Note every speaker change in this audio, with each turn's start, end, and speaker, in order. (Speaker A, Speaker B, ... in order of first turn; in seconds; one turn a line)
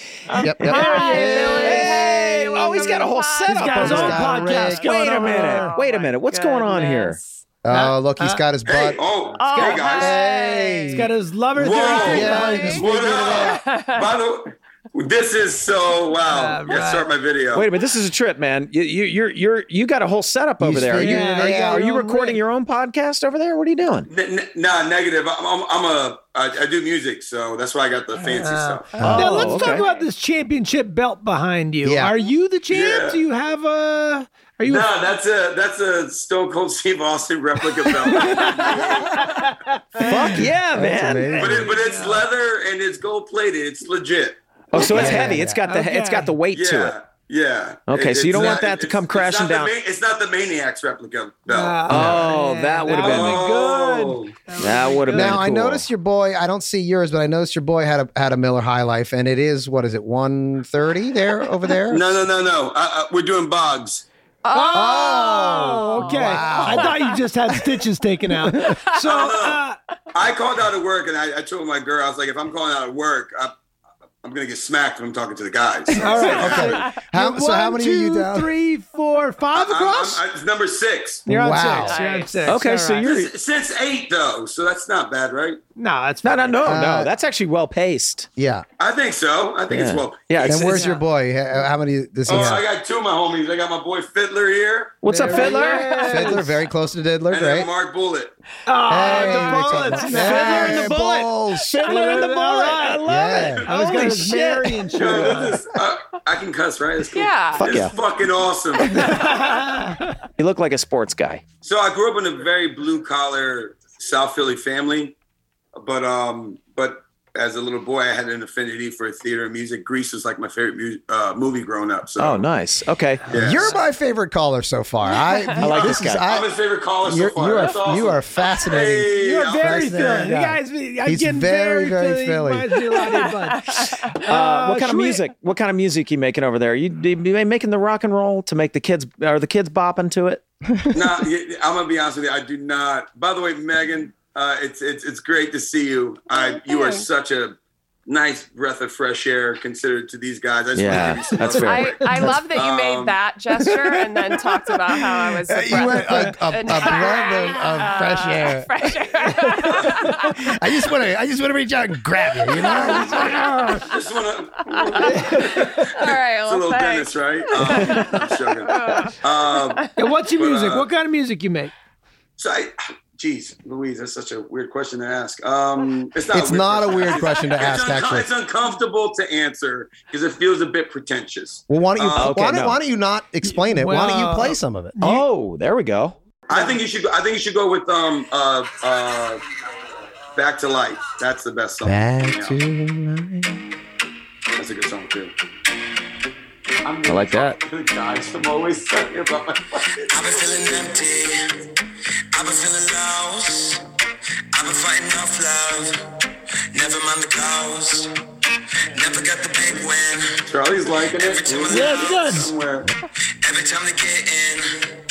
Speaker A: 0.3-5.8
Speaker B: 0.3-7.4
Speaker C: 0.4-1.7
Speaker D: 1.3-7.2
Speaker C: 3.7-4.9
Speaker C: 7.6-9.1
Speaker A: 7.7-8.4
Speaker E: 8.7-10.2
Speaker B: 9.4-11.1
Speaker A: 9.4-10.3
Speaker C: 9.9-11.1
Speaker A: 10.8-13.5
Speaker E: 11.6-17.7
Speaker B: 11.7-14.1
Speaker C: 11.9-13.6
Speaker A: 16.2-17.1
Speaker D: 17.5-24.1
Speaker C: 20.6-21.8
Speaker A: 20.9-22.4
Speaker E: 24.1-28.9
Speaker A: 28.2-34.9
Speaker C: 29.0-29.4
Speaker B: 29.0-30.1
Speaker D: 29.1-29.8
Speaker C: 31.8-32.2
Speaker E: 32.7-33.2
Speaker E: 34.6-39.6
Speaker A: 37.9-42.3
Speaker D: 40.1-41.6
Speaker C: 40.4-41.8
Speaker E: 41.4-44.4
Speaker D: 44.7-47.0
Speaker A: 44.8-46.4
Speaker C: 44.8-45.6
Speaker E: 46.5-51.9
Speaker D: 47.9-49.7
Speaker A: 48.3-48.7
Speaker A: 51.5-55.4
Speaker D: 51.9-53.5
Speaker C: 51.9-52.3
Speaker E: 52.9-54.4
Speaker D: 54.6-55.8
Speaker C: 55.1-62.1
Speaker E: 61.9-64.1
Speaker B: 64.5-67.2
Speaker A: 64.5-69.8
Speaker C: 64.7-67.0
Speaker E: 69.0-73.6
Speaker E: 74.2-76.8
Speaker C: 75.9-78.5
Speaker A: 75.9-80.3
Speaker B: 76.0-77.0
Speaker E: 79.5-81.3
Speaker A: 81.3-83.2
Speaker C: 81.3-82.0
Speaker B: 81.8-82.5
Speaker D: 82.5-83.3
Speaker E: 83.0-85.6
Speaker A: 85.8-86.8
Speaker D: 86.2-88.3
Speaker C: 86.6-87.1
Speaker C: 88.4-88.7
Speaker E: 88.8-90.8
Speaker D: 89.7-90.9
Speaker C: 90.4-92.7
Speaker B: 90.8-91.0
Speaker E: 92.3-95.1
Speaker D: 95.0-96.4
Speaker A: 95.0-96.5
Speaker C: 96.0-97.7
Speaker E: 97.3-98.3
Speaker A: 98.7-101.0
Speaker C: 98.9-102.3
Speaker D: 99.1-104.8
Speaker A: 101.8-105.7
Speaker C: 103.0-103.7
Speaker E: 105.0-109.6
Speaker B: 107.1-107.9
Speaker D: 107.6-108.0
Speaker B: 108.8-109.5
Speaker A: 108.9-110.2
Speaker D: 110.4-111.4
Speaker E: 111.6-115.2
Speaker E: 115.7-122.5
Speaker D: 122.2-123.2
Speaker A: 123.3-123.7
Speaker E: 123.3-123.7
Speaker C: 123.3-132.7
Speaker B: 125.1-125.6
Speaker D: 125.6-126.2
Speaker E: 125.7-130.0
Speaker A: 129.1-135.2
Speaker B: 132.9-134.1
Speaker D: 134.3-140.4
Speaker C: 140.7-141.3
Speaker E: 140.9-153.2
Speaker B: 146.3-147.1
Speaker D: 150.7-152.4
Speaker B: 151.5-160.5
Speaker C: 155.5-163.4
Speaker A: 155.8-157.5
Speaker B: 162.6-163.9
Speaker A: 162.8-164.0
Speaker E: 162.8-170.9
Speaker B: 164.7-169.9
Speaker A: 165.1-165.9
Speaker A: 167.9-168.3
Speaker A: 170.0-171.7
Speaker E: 172.4-182.4
Speaker C: 176.3-178.3
Speaker C: 181.7-184.9
Speaker D: 182.2-182.8
Speaker A: 183.5-185.3
Speaker D: 185.0-186.2
Speaker E: 186.5-189.4
Speaker E: 190.4-192.6
Speaker C: 191.8-193.6
Speaker E: 194.6-195.3
Speaker E: 196.8-200.1
Speaker D: 197.1-197.6
Speaker F: 200.1-201.4
Speaker F: 202.3-203.8
Speaker F: 204.5-206.0
Speaker F: 206.7-208.1
Speaker F: 208.9-210.4
Speaker E: 210.5-212.9
Speaker F: 211.0-212.4
Speaker A: 211.7-212.5
Speaker F: 213.4-214.9